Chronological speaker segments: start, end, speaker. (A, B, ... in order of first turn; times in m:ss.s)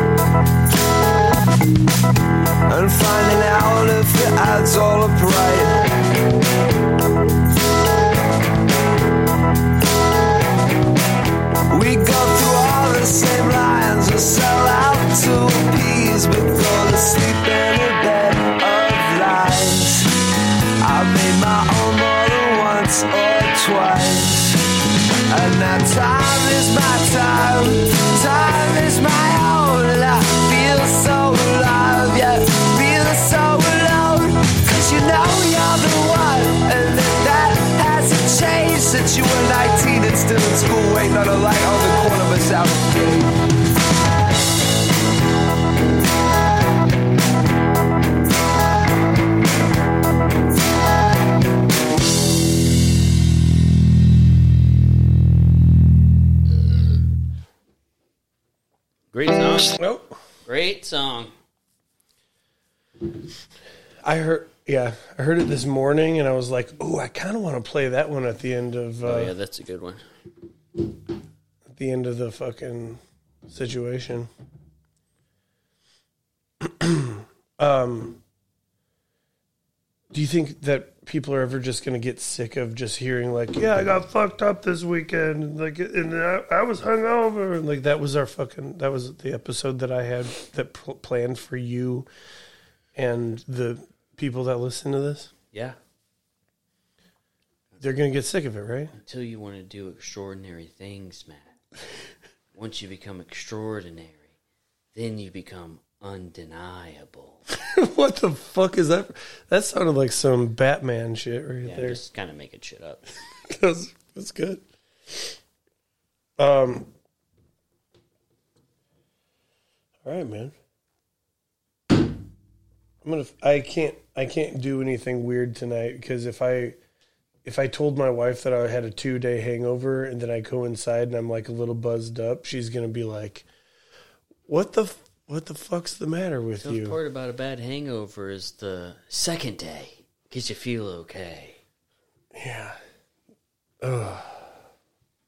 0:02.7-0:05.8 A
0:11.7-0:20.2 A
0:20.8-0:24.6 A
0:25.3-0:43.4 A
0:59.1-0:59.8 B
0:59.8-1:00.1 C
1:00.4-1:01.3 B
1:04.0-1:09.3 C
1:09.0-1:10.0 B
1:11.7-1:14.3 C
1:16.6-1:18.2 C
1:20.1-1:32.1 C
1:32.9-1:35.3 C
1:37.8-1:38.9 C
1:39.0-1:41.5 B
1:42.5-1:44.2 B
1:44.9-1:47.4 B
1:47.5-1:52.0 C
1:51.6-1:53.0 B
1:53.5-1:55.3 C
1:56.4-1:56.9 C
2:00.0-2:00.5 C
2:03.0-2:06.8 C
2:07.4-2:13.5 C
2:14.5-2:17.0 C
2:16.6-2:21.6 B
2:22.3-2:22.8 C
2:23.8-2:24.4 C